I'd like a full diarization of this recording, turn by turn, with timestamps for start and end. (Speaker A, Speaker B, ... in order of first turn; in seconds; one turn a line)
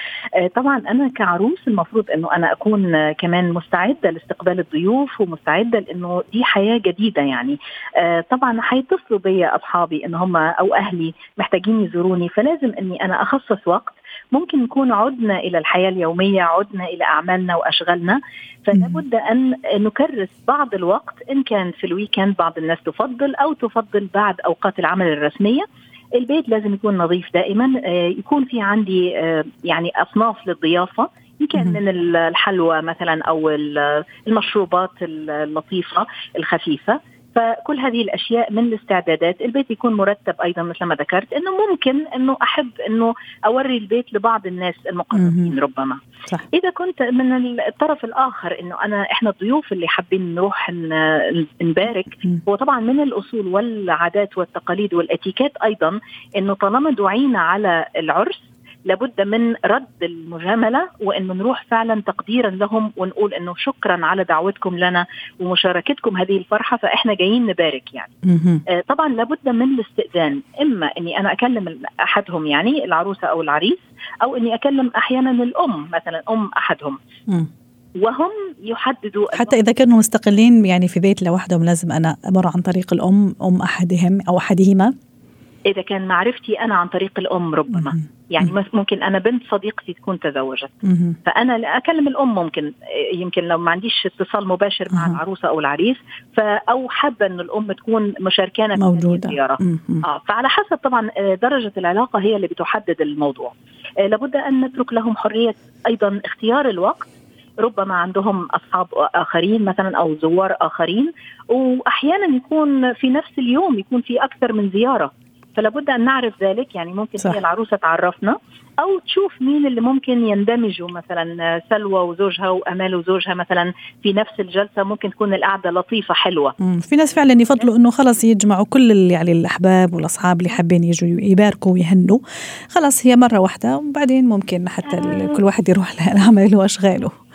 Speaker A: 0.4-46.0
Speaker B: 45.1-45.5
Speaker A: 46.5-68.1
Speaker B: 68.2-68.6
Speaker A: 68.7-77.0
Speaker A: 78.0-79.5
Speaker B: 79.3-84.9
Speaker A: 85.7-90.7
Speaker B: 87.7-88.5
Speaker B: 90.8-91.2
Speaker A: 91.2-107.1
Speaker B: 94.9-95.2
Speaker B: 98.8-100.0
Speaker A: 107.6-126.5
Speaker B: 126.6-132.2
Speaker B: 132.7-137.2
Speaker A: 135.0-135.3